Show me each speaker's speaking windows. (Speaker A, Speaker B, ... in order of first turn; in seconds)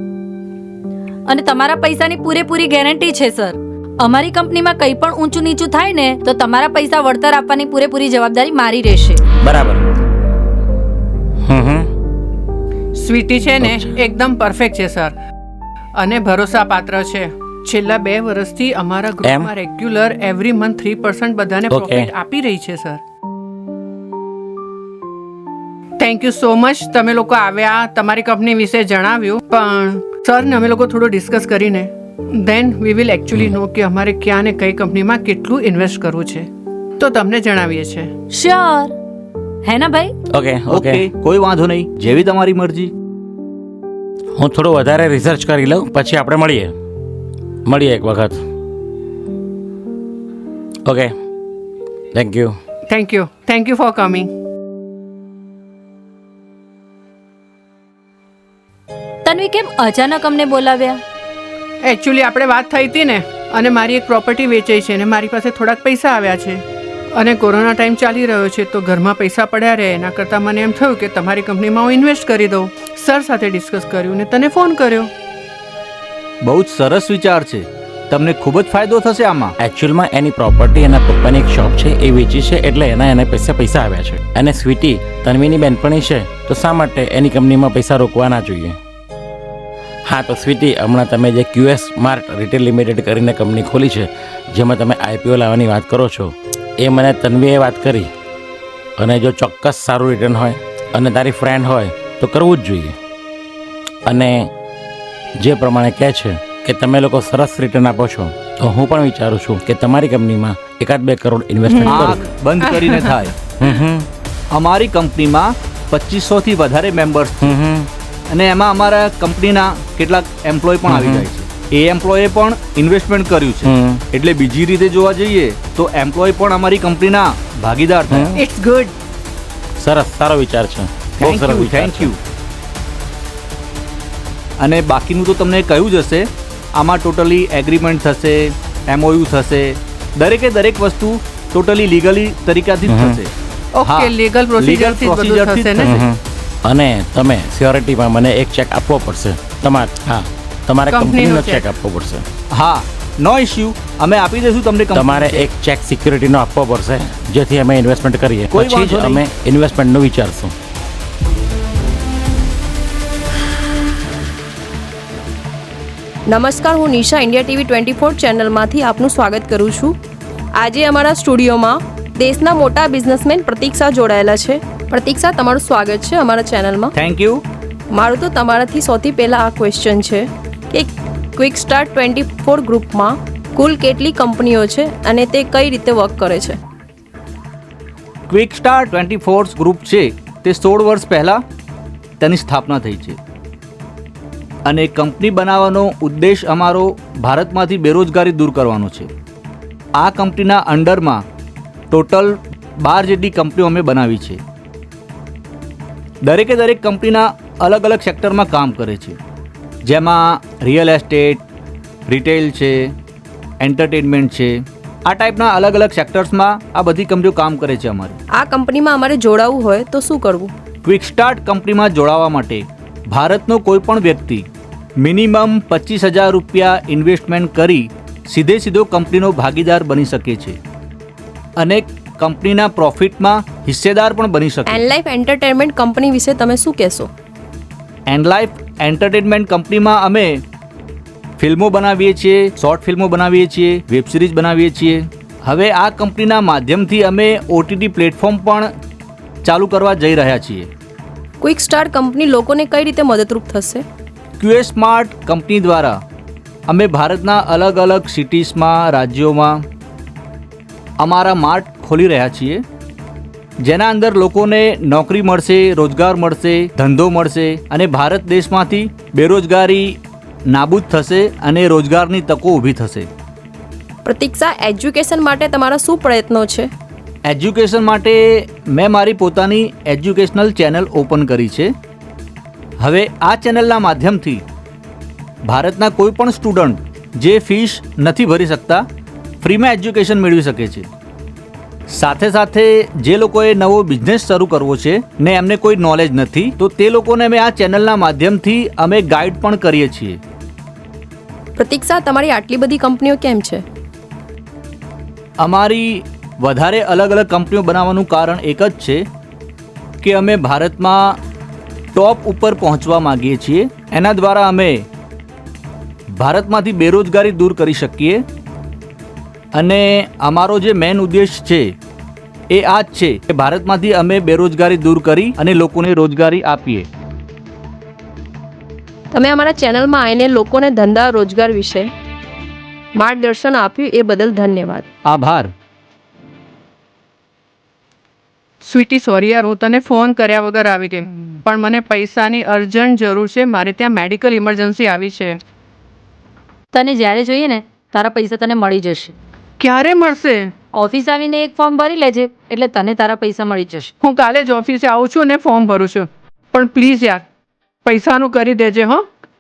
Speaker A: 1.3-9.2, 38.3-38.9, 39.6-40.1, 59.2-61.0, 346.7-349.1, 350.7-353.9
Speaker B: 9.4-9.8, 11.4-11.9, 13.6-13.9, 19.2-19.5, 21.7-22.1, 40.3-41.0, 44.4-46.7, 47.7-48.4, 50.9-51.1, 52.1-52.6, 79.6-88.8, 90.1-98.1, 99.0-103.0, 104.1-104.5, 105.4-112.3, 113.6-114.1, 117.4-117.9, 120.9-121.2, 123.7-124.0, 128.1-128.4, 129.8-132.1, 142.9-143.2, 145.8-152.2, 154.9-160.5
Speaker C: 12.9-15.2, 16.0-23.0, 26.0-38.1, 52.9-54.3, 61.8-75.1, 111.7-112.1, 112.6-113.2, 128.3-128.9, 143.7-146.0, 150.9-151.7, 338.6-345.4, 349.6-350.5, 354.0-357.2, 357.9-359.1
Speaker D: 40.7-42.9, 76.4-79.5, 111.8-113.3, 114.5-117.5, 118.3-128.3, 131.2-132.2, 134.6-143.3, 143.8-146.0, 152.5-155.5, 158.5-159.2, 177.0-177.4, 188.3-191.4, 192.2-193.2, 194.7-199.1, 200.0-201.2, 201.9-204.4, 206.2-209.2, 209.8-211.4, 212.1-212.9, 213.6-214.6, 215.1-218.2, 220.8-224.4, 225.0-230.6, 231.6-234.9, 238.1-240.4, 241.4-248.7, 249.4-250.7, 254.4-256.0, 256.7-259.6, 261.0-262.6, 263.6-270.0, 270.5-273.1, 277.3-281.7, 282.8-284.4, 285.5-288.9, 289.4-290.9, 291.9-300.2, 305.4-309.0, 310.0-311.2, 311.9-314.9, 316.2-318.2, 319.6-321.7, 322.5-326.9, 335.1-335.5
Speaker E: 166.3-170.0, 170.6-176.9, 177.9-186.6, 218.3-220.5, 234.7-237.1, 251.4-253.8, 274.1-276.7, 301.6-303.6, 329.1-331.9, 333.0-334.9